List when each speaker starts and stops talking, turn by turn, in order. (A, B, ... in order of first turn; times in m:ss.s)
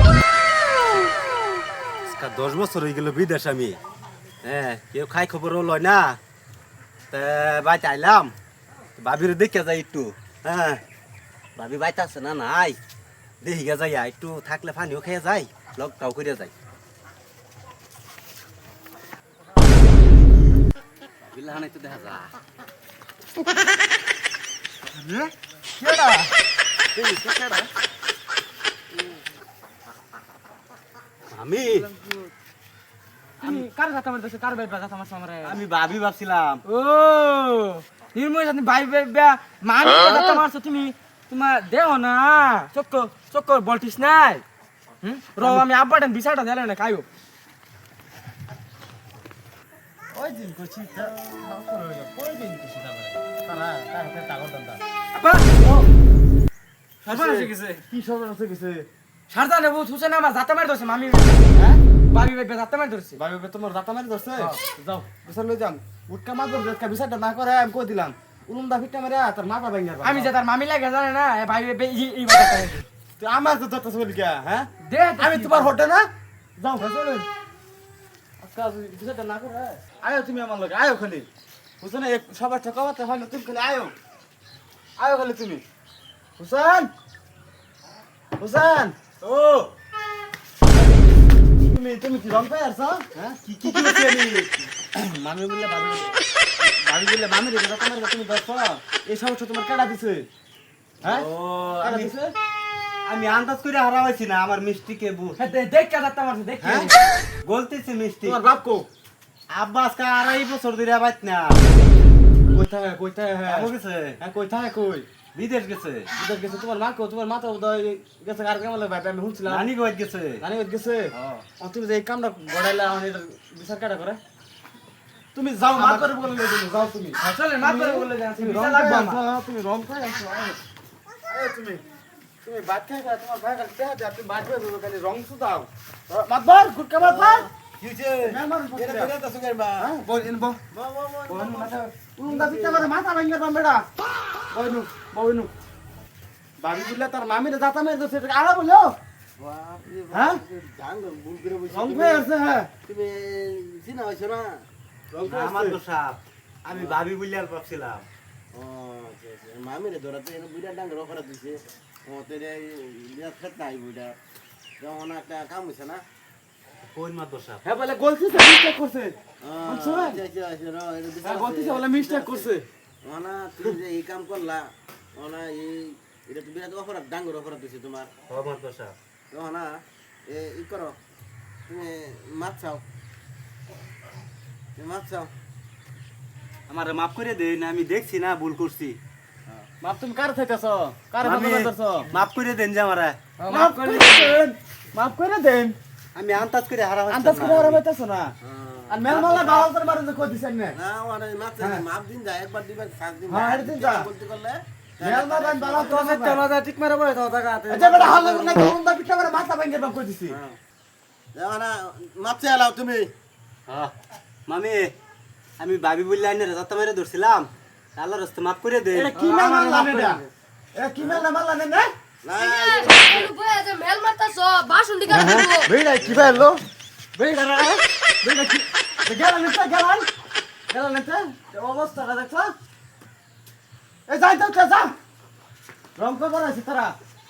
0:02.0-0:03.8 A
0:04.4-0:06.2 A
0:07.1-0:08.4 A
0:09.0-0:10.8 A
0:11.6-0:12.8 A
0:13.4-0:16.5 A
0:21.2-0:22.3 A
0:25.8-0:26.3 B
0:27.0-0:27.7 C
0:31.3-0:31.9 A
0:33.4-0:35.6 B
0:35.4-0:36.6 A
0:36.7-0:44.4 B
0:45.0-0:47.1 B
0:50.1-0:54.8 D
0:55.1-0:55.5 B
0:55.6-0:55.9 D
0:57.0-0:58.9 D
0:57.1-0:57.8 B
0:59.3-1:01.5 B
1:01.5-1:01.8 D
1:02.1-1:03.2 B
1:03.2-1:10.3 D
1:04.4-1:04.8 B
1:10.0-1:12.9 B
1:13.2-1:16.1 D
1:14.8-1:15.7 B
1:16.6-1:17.3 D
1:18.4-1:21.3 D
1:21.8-1:23.9 D
1:25.0-1:25.6 D
1:26.4-1:26.9 D
1:28.4-1:29.2 D
1:29.2-1:29.7 A
1:31.6-1:33.2 D
1:33.2-1:36.1 A
1:36.6-1:40.3 D
1:41.0-1:41.3 D
1:41.0-1:42.1 A
1:41.8-1:42.3 D
1:43.0-1:45.4 A
1:45.4-1:47.0 B
1:46.6-1:46.9 D
1:47.4-1:48.4 A
1:48.2-1:48.9 D
1:49.5-1:51.8 A
1:52.5-1:53.7 D
1:53.5-1:54.2 A
1:54.2-1:55.1 D
1:55.3-1:56.1 A
1:56.1-1:59.7 D
1:59.4-2:00.4 A
2:00.4-2:04.2 D
2:01.1-2:01.5 A
2:05.3-2:10.6 D
2:05.8-2:06.0 A
2:07.2-2:09.2 B
2:11.3-2:11.8 D
2:12.4-2:17.5 D
2:17.0-2:19.9 C
2:18.2-2:19.1 D
2:19.8-2:20.6 D
2:20.7-2:22.9 C
2:21.3-2:23.9 D
2:24.5-2:25.5 D
2:26.6-2:29.0 D
2:29.4-2:32.3 C
2:30.1-2:30.4 D
2:31.7-2:32.7 D
2:32.8-2:34.7 C
2:35.1-2:35.8 D
2:35.2-2:38.1 A
2:36.7-2:37.0 C
2:38.5-2:44.2 C
2:44.8-2:46.0 C
2:46.8-2:47.6 A
2:47.6-2:49.2 D
2:49.4-2:58.1 C
2:49.7-2:50.2 D
2:51.2-2:52.7 D
2:58.3-2:59.0 A
2:59.3-3:01.0 C
3:01.7-3:02.8 C
3:04.8-3:05.3 C
3:06.7-3:09.0 A
3:09.8-3:12.1 D
3:11.2-3:13.2 A
3:13.4-3:14.4 B
3:13.5-3:15.8 D
3:16.1-3:17.8 A
3:17.1-3:18.4 D
3:18.4-3:19.7 C
3:18.9-3:20.8 D
3:20.7-3:26.4 C
3:21.6-3:21.8 D
3:23.3-3:24.1 D
3:25.0-3:26.4 D
3:25.8-3:26.4 B
3:26.9-3:27.4 B
3:27.7-3:28.6 C
3:27.7-3:30.4 D
3:30.3-3:30.6 C
3:31.3-3:33.1 C
3:33.7-3:33.9 A
3:34.5-3:35.0 A
3:35.6-3:39.2 A
3:38.9-3:40.2 D
3:39.2-3:40.3 B
3:40.7-3:41.9 D
3:41.0-3:41.3 C
3:42.2-3:43.3 C
3:42.3-3:45.7 E
3:45.1-3:46.6 D
3:46.0-3:46.5 C
3:47.2-3:50.1 D
3:50.7-3:52.5 D
3:54.1-3:55.0 D
3:56.0-3:57.0 D